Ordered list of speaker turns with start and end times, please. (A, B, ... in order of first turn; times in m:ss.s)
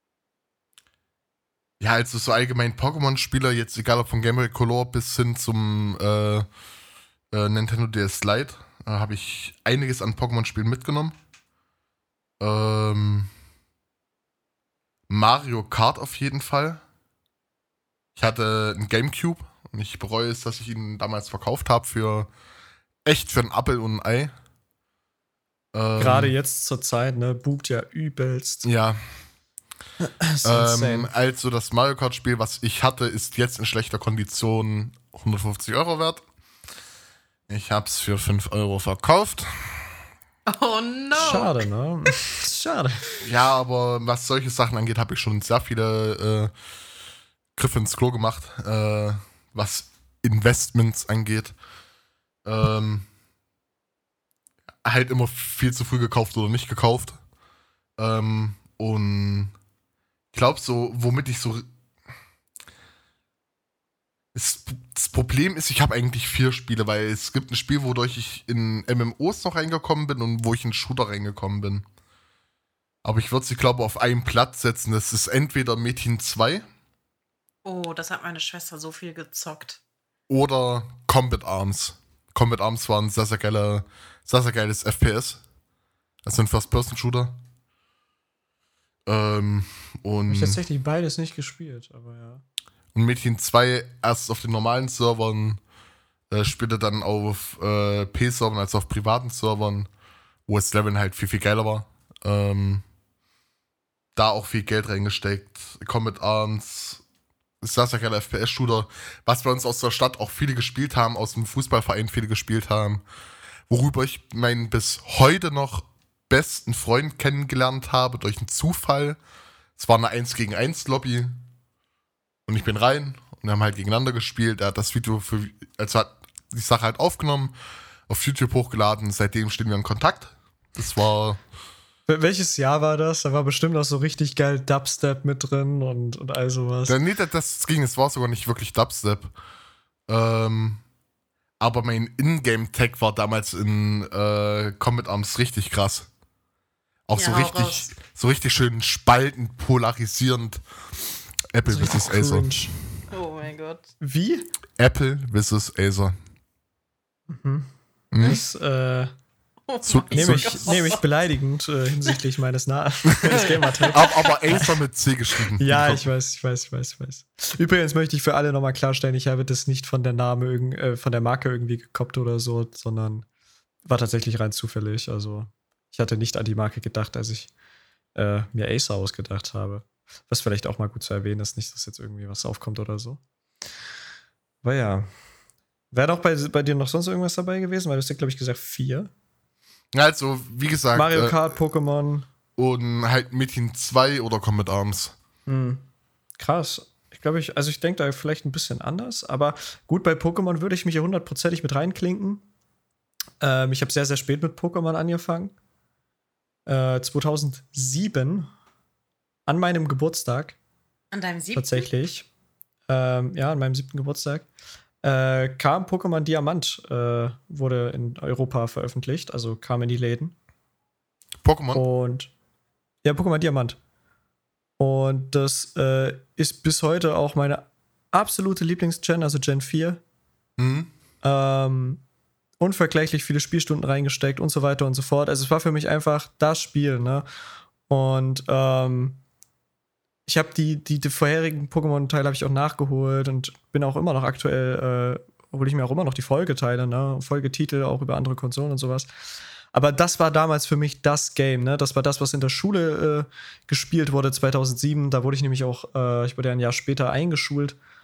0:01.8-0:06.4 A
0:07.3-0:11.1 A
0:12.4-0:13.3 A
0:15.1-0:16.8 A
0:18.2-0:22.3 A
0:23.0-0:24.3 A
0:25.7-0:26.3 A
0:26.0-0:28.6 B
0:28.6-0:29.0 A
0:30.0-0:31.1 B
0:30.4-0:36.2 A
0:37.5-0:39.9 A
0:40.4-0:41.7 C
0:41.1-0:43.0 B
0:43.2-0:46.5 A
0:47.6-0:51.5 A
0:52.4-0:53.1 A
0:54.8-0:57.2 A
0:58.0-0:59.5 A
1:00.3-1:01.7 A
1:04.3-1:11.8 A
1:13.0-1:16.6 A
1:17.6-1:19.8 C
1:20.3-1:25.4 A
1:26.2-1:27.4 A
1:29.0-1:30.6 A
1:30.3-1:32.4 B
1:32.9-1:35.6 A
1:36.3-1:39.9 A
1:40.5-1:42.8 A
1:44.2-1:47.0 A
1:47.6-1:53.0 A
1:53.7-1:59.2 A
1:59.8-2:01.4 A
2:02.5-2:07.5 A
2:08.1-2:11.4 A
2:12.1-2:17.0 B
2:16.9-2:19.3 A
2:20.1-2:20.8 A
2:21.6-2:26.1 A
2:27.1-2:30.6 A
2:27.2-2:27.9 C
2:31.5-2:32.5 A
2:31.7-2:32.7 B
2:33.1-2:33.9 C
2:34.0-2:34.5 B
2:34.8-2:36.2 A
2:37.3-2:39.1 B
2:38.1-2:38.4 A
2:39.7-2:41.0 C
2:39.8-2:40.7 A
2:40.1-2:44.6 B
2:43.3-2:44.4 C
2:43.9-2:46.0 A
2:45.6-2:53.2 B
2:53.8-2:57.5 B
2:58.1-3:03.2 B
3:04.6-3:05.1 B
3:05.9-3:09.1 B
3:09.9-3:11.4 A
3:10.9-3:12.2 B
3:12.6-3:15.1 A
3:15.5-3:15.8 B
3:16.4-3:22.4 B
3:23.4-3:25.5 B
3:26.6-3:28.5 B
3:29.5-3:30.6 B
3:31.1-3:31.9 C
3:31.5-3:32.3 B
3:32.9-3:34.5 B
3:35.0-3:40.3 B
3:41.4-3:41.8 A
3:41.7-3:42.3 B
3:43.0-3:43.8 B
3:44.8-3:50.0 B
3:50.6-3:50.9 A
3:51.2-3:52.0 B
3:52.6-3:57.2 B
3:57.9-3:59.2 B
4:00.3-4:09.1 B
4:09.7-4:17.8 B